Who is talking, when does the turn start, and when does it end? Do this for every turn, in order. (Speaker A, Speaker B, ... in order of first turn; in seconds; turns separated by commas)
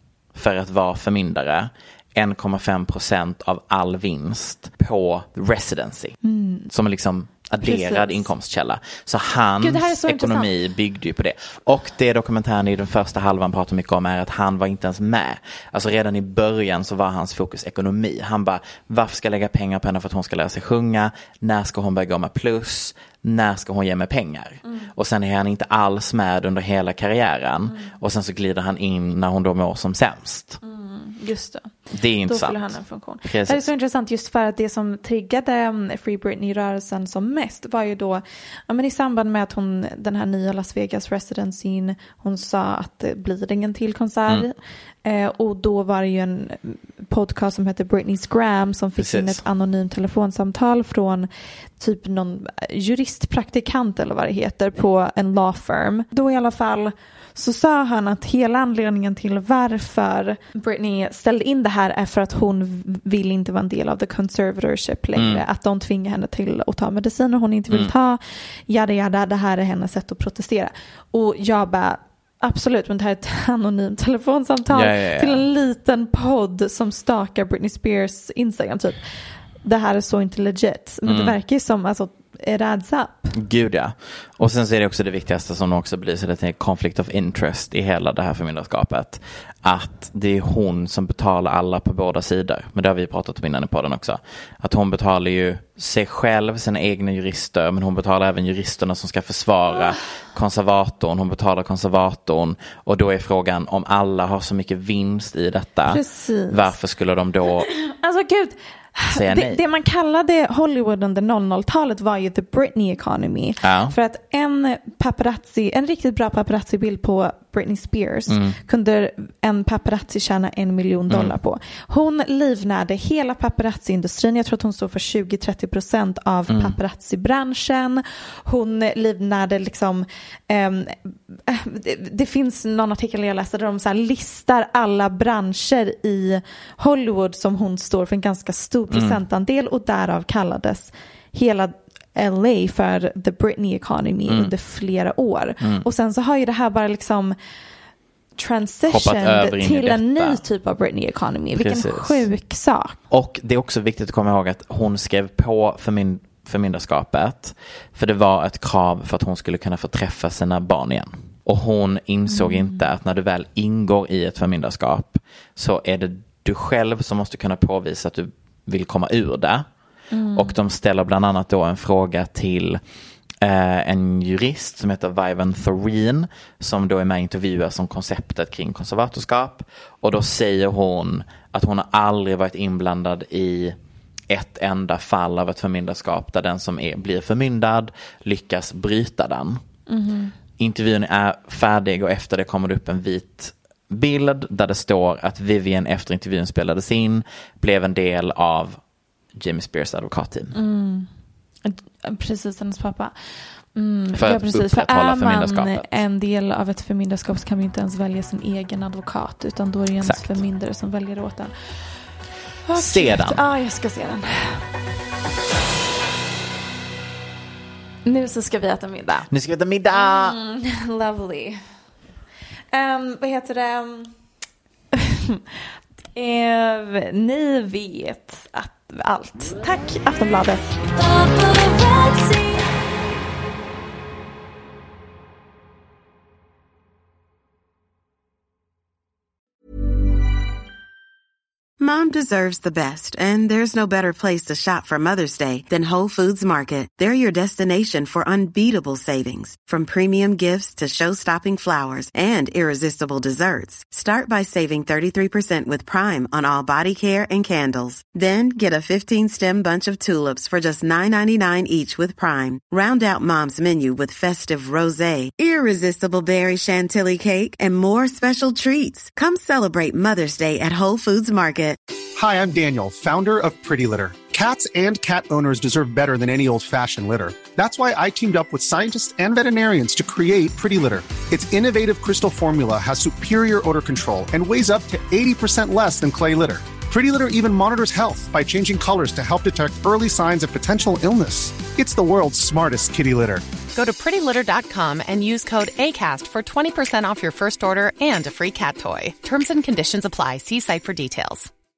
Speaker A: 0.3-6.2, Speaker B: 6.2-6.7, Speaker A: 6.7-30.6, Speaker B: 7.6-8.3, Speaker B: 9.6-10.5, Speaker B: 30.6-79.1, Speaker A: 31.9-33.7, Speaker A: 49.0-49.4, Speaker A: 65.2-65.4, Speaker A: 74.7-75.5, Speaker B: 79.6-83.3, Speaker A: 81.1-81.4, Speaker A: 83.3-107.7, Speaker B: 105.9-106.7, Speaker B: 107.7-147.3, Speaker A: 109.1-109.6, Speaker A: 113.6-113.9, Speaker A: 118.3-118.6, Speaker A: 121.1-121.3, Speaker A: 126.5-126.8, Speaker A: 138.9-139.2, Speaker A: 144.3-144.5, Speaker B: 148.4-153.0, Speaker A: 148.9-150.4, Speaker A: 151.6-152.3, Speaker A: 153.1-169.7, Speaker B: 162.3-162.9, Speaker B: 170.1-170.6, Speaker A: 170.3-172.8, Speaker A: 173.4-183.8, Speaker A: 184.3-189.6, Speaker B: 189.9-190.3, Speaker A: 190.6-198.8, Speaker A: 199.3-200.6, Speaker B: 200.5-201.1, Speaker B: 201.7-203.1, Speaker B: 203.8-211.5, Speaker A: 204.1-205.9, Speaker A: 210.0-210.4, Speaker B: 212.7-214.7, Speaker A: 212.8-213.5, Speaker B: 218.1-219.3, Speaker A: 219.3-220.4, Speaker B: 219.9-221.6, Speaker B: 222.7-224.1, Speaker B: 224.9-225.4, Speaker B: 226.2-232.4, Speaker C: 241.8-271.8, Speaker D: 272.2-293.4, Speaker E: 293.7-301.5